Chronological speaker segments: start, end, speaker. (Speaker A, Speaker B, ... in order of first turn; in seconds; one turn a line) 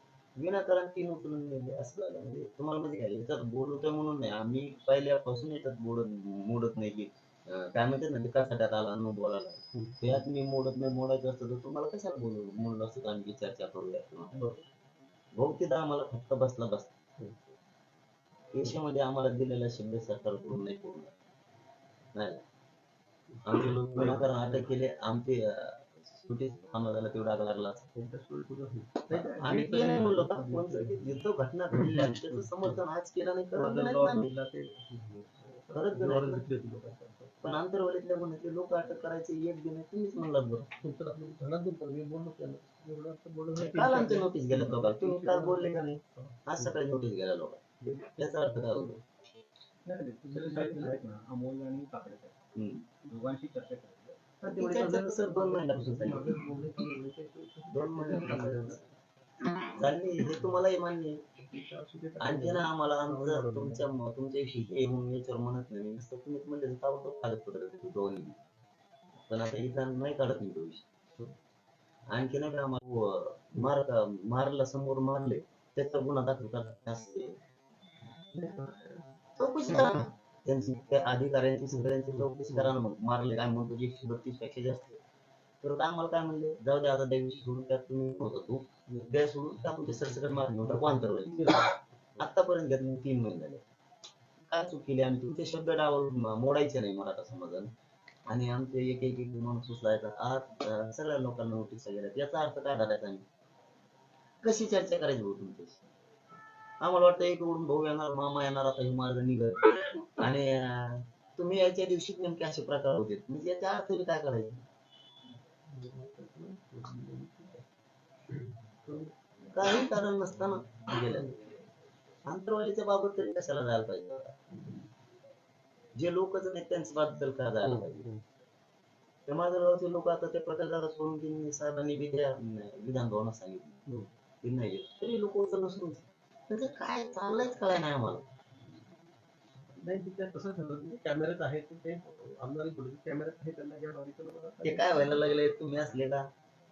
Speaker A: 0.4-14.4
Speaker B: 9.7-10.2
Speaker A: 15.4-16.9
Speaker A: 18.5-21.1
Speaker A: 22.1-22.4
Speaker B: 23.3-24.7
Speaker A: 23.4-27.9
Speaker B: 27.9-31.2
Speaker A: 29.1-34.3
Speaker B: 31.8-32.1
Speaker B: 33.5-37.5
Speaker A: 35.7-36.5
Speaker A: 37.4-40.7
Speaker B: 40.8-46.8
Speaker A: 43.6-45.8
Speaker A: 46.5-49.0
Speaker B: 47.8-49.0
Speaker C: 49.9-52.4
Speaker B: 50.3-51.0
Speaker A: 52.5-52.9
Speaker C: 53.1-54.2
Speaker A: 54.4-56.4
Speaker B: 54.4-58.8
Speaker A: 57.7-58.8
Speaker A: 59.6-61.2
Speaker B: 61.4-63.9
Speaker A: 62.2-68.4
Speaker A: 69.2-70.9
Speaker A: 72.1-77.4
Speaker B: 78.3-79.0
Speaker A: 79.4-85.0
Speaker A: 85.6-93.6
Speaker B: 90.7-92.2
Speaker A: 94.5-97.7
Speaker A: 98.3-103.2
Speaker A: 104.4-105.8
Speaker A: 106.8-114.6
Speaker B: 115.7-117.6
Speaker B: 118.4-120.0
Speaker A: 119.5-121.3
Speaker B: 121.0-121.3
Speaker A: 122.3-124.4
Speaker A: 126.0-128.0
Speaker B: 127.6-128.2
Speaker A: 129.3-133.8
Speaker A: 134.4-138.2
Speaker B: 139.7-145.2
Speaker A: 144.6-146.3